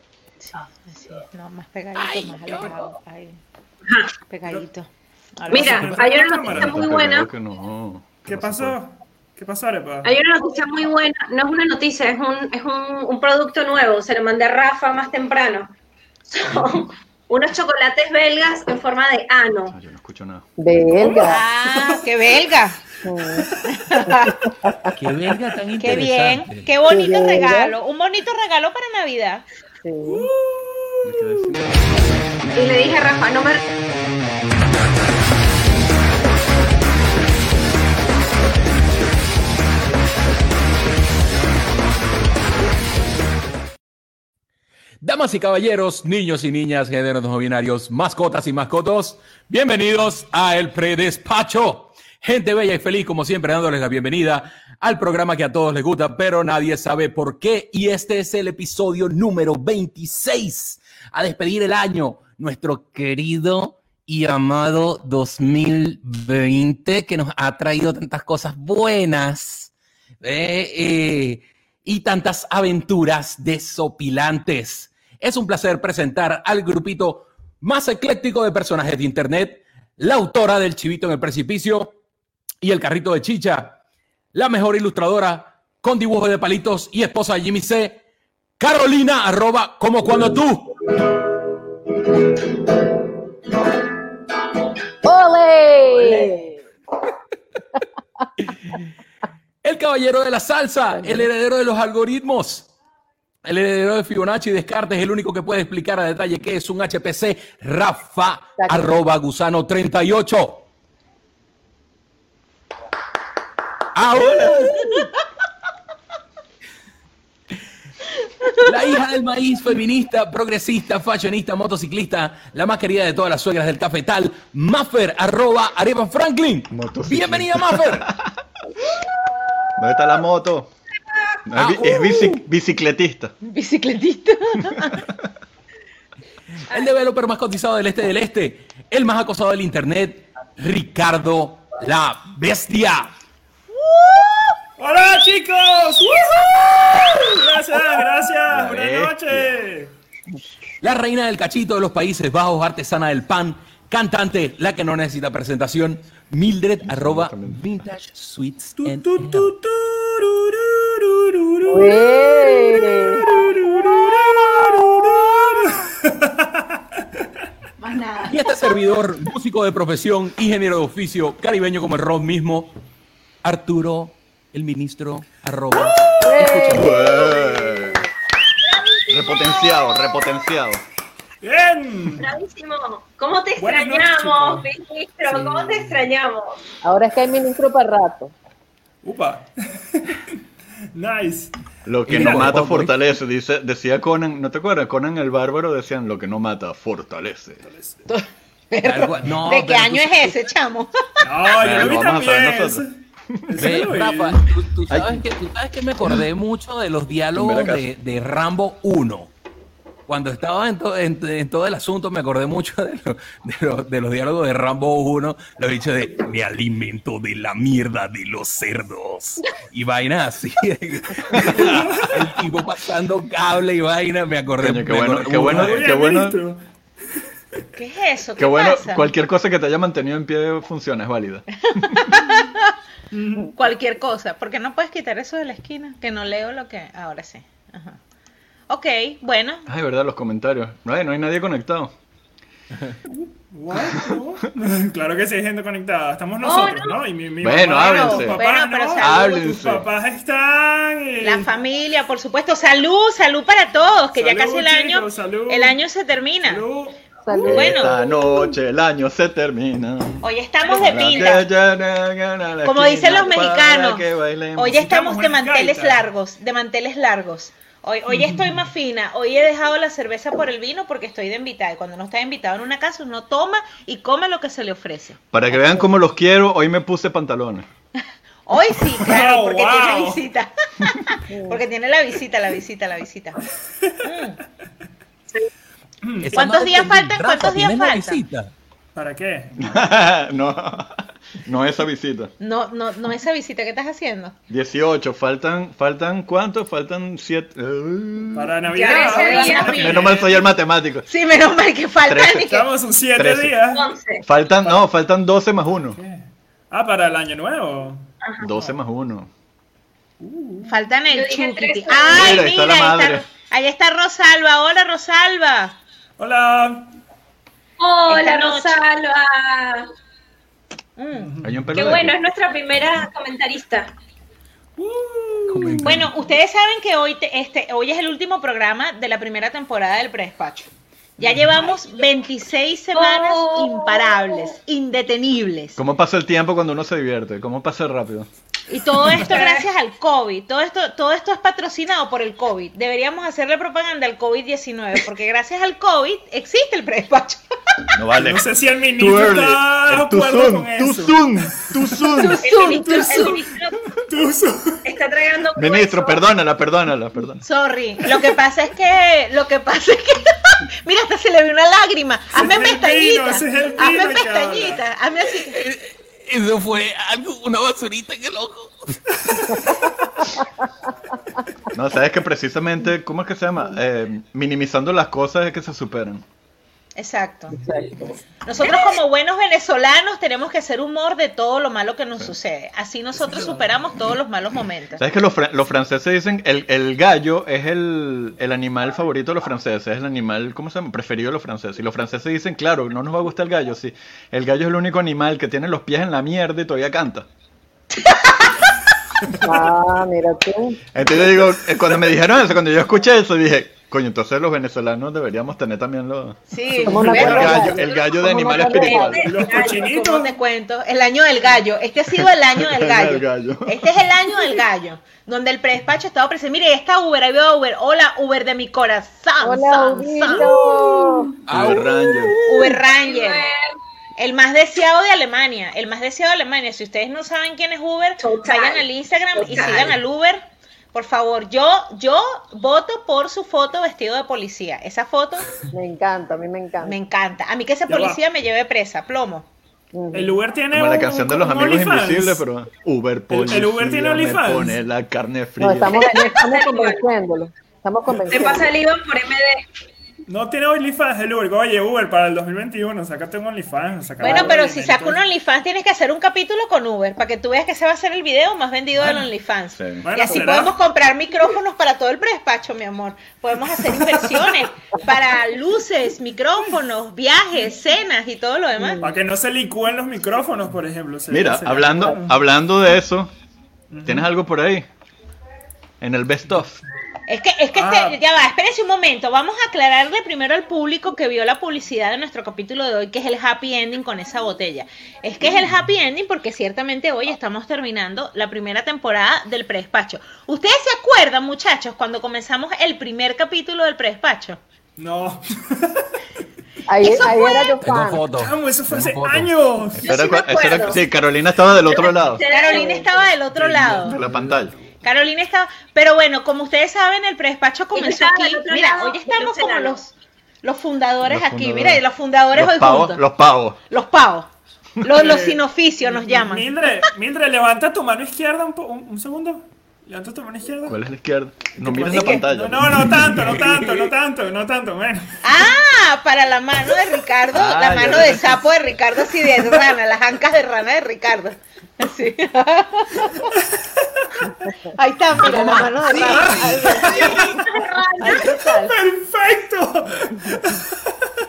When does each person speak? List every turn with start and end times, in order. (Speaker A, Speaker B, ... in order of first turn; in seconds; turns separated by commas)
Speaker A: 0.4-3.4, Speaker B: 2.1-2.8, Speaker B: 3.9-4.1, Speaker A: 4.3-5.9, Speaker C: 5.5-6.8, Speaker B: 5.5-7.3, Speaker D: 6.4-8.8, Speaker C: 8.2-10.2, Speaker B: 10.0-15.8, Speaker B: 16.3-19.8, Speaker D: 19.7-20.5, Speaker E: 20.6-21.5, Speaker A: 21.2-22.8, Speaker E: 23.1-23.5, Speaker A: 23.6-24.4, Speaker E: 24.1-24.9, Speaker F: 25.0-26.7, Speaker A: 25.8-29.4, Speaker E: 26.9-27.8, Speaker E: 29.8-30.3, Speaker D: 31.1-31.9, Speaker B: 32.5-33.6, Speaker F: 45.0-81.9, Speaker F: 82.6-83.8, Speaker F: 84.3-88.0, Speaker F: 88.6-90.8, Speaker E: 95.0-96.6, Speaker F: 99.6-102.7, Speaker E: 101.0-101.3, Speaker F: 103.4-110.7, Speaker E: 108.6-108.9, Speaker F: 114.0-115.1, Speaker F: 118.6-128.1, Speaker D: 126.7-128.3, Speaker D: 129.8-130.7, Speaker D: 131.5-133.3, Speaker F: 131.6-132.4, Speaker A: 133.4-135.0, Speaker F: 136.7-143.1, Speaker A: 143.8-144.4, Speaker C: 144.8-149.9, Speaker D: 148.5-149.5, Speaker F: 150.8-159.5, Speaker D: 156.9-157.6, Speaker C: 158.8-166.8, Speaker E: 161.7-163.3, Speaker A: 167.9-168.3, Speaker F: 168.3-172.8, Speaker F: 173.4-176.9, Speaker C: 175.7-176.3, Speaker E: 176.2-178.0, Speaker D: 176.6-178.0, Speaker D: 179.1-180.8, Speaker C: 181.4-182.3, Speaker B: 182.2-186.6, Speaker C: 183.6-184.7, Speaker C: 185.3-186.1, Speaker E: 186.8-188.3, Speaker C: 189.0-190.3, Speaker C: 190.9-191.5, Speaker D: 191.9-197.6, Speaker F: 192.1-192.9, Speaker C: 197.6-198.0, Speaker A: 198.1-200.9, Speaker F: 198.8-200.4, Speaker C: 201.2-202.9, Speaker D: 201.6-203.6, Speaker C: 203.5-204.4, Speaker F: 203.6-209.3, Speaker D: 204.9-205.2, Speaker D: 207.3-207.9, Speaker F: 210.1-225.8, Speaker D: 221.3-222.0, Speaker C: 221.4-222.2, Speaker D: 224.6-226.4, Speaker C: 225.3-226.6, Speaker A: 227.8-229.1, Speaker D: 228.4-232.0, Speaker A: 231.8-232.7, Speaker C: 233.1-233.5, Speaker A: 233.5-238.0, Speaker A: 238.7-239.7, Speaker D: 239.7-241.9, Speaker C: 243.1-251.5, Speaker B: 246.4-247.0, Speaker D: 247.4-248.4, Speaker A: 247.8-249.5, Speaker D: 249.0-249.9, Speaker A: 251.2-256.6, Speaker C: 254.2-255.8, Speaker C: 256.4-257.0, Speaker E: 257.2-258.5, Speaker A: 257.4-257.9, Speaker D: 257.4-260.2, Speaker A: 260.2-261.5, Speaker D: 260.8-264.9, Speaker A: 262.6-264.1, Speaker A: 264.6-275.2, Speaker C: 264.8-266.0, Speaker C: 268.1-268.6, Speaker D: 275.3-277.7, Speaker E: 275.5-275.9, Speaker A: 278.5-283.4, Speaker C: 278.9-280.2, Speaker E: 281.3-281.6, Speaker A: 284.0-284.4, Speaker C: 286.0-286.4, Speaker F: 286.2-288.5, Speaker A: 286.3-288.2, Speaker C: 288.9-289.5, Speaker D: 289.6-292.3, Speaker A: 292.4-294.4, Speaker D: 294.5-301.1, Speaker C: 298.4-300.5, Speaker B: 298.7-300.2, Speaker A: 301.1-302.7, Speaker D: 302.0-302.5, Speaker C: 302.4-303.9, Speaker D: 303.1-303.6, Speaker B: 303.7-304.2, Speaker D: 304.2-306.0, Speaker C: 305.9-308.1, Speaker D: 308.4-309.3, Speaker C: 310.2-310.8, Speaker A: 310.7-315.8, Speaker B: 311.1-312.4, Speaker D: 312.1-313.2, Speaker C: 316.2-316.9, Speaker B: 317.8-319.9, Speaker A: 318.1-318.8, Speaker A: 321.0-321.3, Speaker C: 321.1-321.7, Speaker D: 321.4-322.2, Speaker B: 321.7-323.9, Speaker C: 324.8-326.1, Speaker F: 325.5-326.1, Speaker A: 325.8-335.8, Speaker C: 331.2-331.7, Speaker B: 332.9-334.5, Speaker D: 335.8-338.3, Speaker A: 338.7-347.4, Speaker B: 339.2-339.7, Speaker D: 348.0-348.5, Speaker C: 348.2-354.8, Speaker D: 349.0-352.4, Speaker A: 352.2-353.4, Speaker B: 352.4-353.7, Speaker B: 354.8-356.2, Speaker D: 355.5-357.4, Speaker A: 357.4-365.6, Speaker C: 362.3-364.8, Speaker F: 365.4-369.5, Speaker D: 371.7-376.2, Speaker A: 377.0-377.6, Speaker E: 377.6-378.0, Speaker A: 378.4-385.0, Speaker B: 378.6-379.0, Speaker C: 383.1-383.7, Speaker D: 385.0-397.3, Speaker E: 399.4-400.8, Speaker D: 400.9-409.5, Speaker A: 406.5-407.7, Speaker C: 406.8-407.8, Speaker E: 406.9-409.2, Speaker B: 408.7-410.0, Speaker C: 409.1-410.3, Speaker A: 409.6-420.5, Speaker D: 412.2-413.8, Speaker E: 419.4-421.3, Speaker F: 421.5-422.0, Speaker D: 421.5-422.4, Speaker A: 422.5-423.5, Speaker B: 422.8-423.7, Speaker A: 424.2-435.5, Speaker B: 428.2-430.0, Speaker E: 435.7-436.9, Speaker A: 436.8-439.5, Speaker C: 437.9-438.2, Speaker E: 439.9-440.3, Speaker C: 440.1-442.4, Speaker D: 440.7-446.0, Speaker C: 443.3-444.8, Speaker E: 445.6-448.7, Speaker B: 445.9-447.0, Speaker B: 448.3-449.6, Speaker C: 450.3-455.2, Speaker A: 454.2-469.1, Speaker C: 459.0-459.3, Speaker D: 459.8-460.1, Speaker C: 460.0-460.8, Speaker C: 463.7-464.4, Speaker C: 469.0-472.4, Speaker D: 471.3-473.3, Speaker C: 473.9-474.3, Speaker D: 474.1-474.9, Speaker D: 476.0-476.8, Speaker A: 477.3-494.6, Speaker C: 477.7-478.2, Speaker C: 495.0-496.1, Speaker E: 496.9-498.2, Speaker A: 497.0-497.6, Speaker F: 497.8-499.5, Speaker C: 498.4-500.2, Speaker D: 500.0-502.4, Speaker B: 500.0-501.0, Speaker B: 501.8-503.3, Speaker A: 502.5-504.2, Speaker C: 503.6-504.4, Speaker D: 504.1-504.7, Speaker A: 505.0-513.2, Speaker B: 507.9-510.0, Speaker D: 511.2-513.8, Speaker A: 513.9-514.5, Speaker A: 515.0-516.7, Speaker C: 515.1-521.0, Speaker D: 520.9-523.0, Speaker C: 521.8-525.4, Speaker A: 522.1-522.5, Speaker F: 523.4-524.1, Speaker A: 525.4-533.5, Speaker D: 527.5-528.6, Speaker A: 535.0-537.6, Speaker C: 535.5-537.7, Speaker F: 535.5-537.0, Speaker B: 537.0-538.6, Speaker A: 538.2-539.0, Speaker C: 538.3-541.1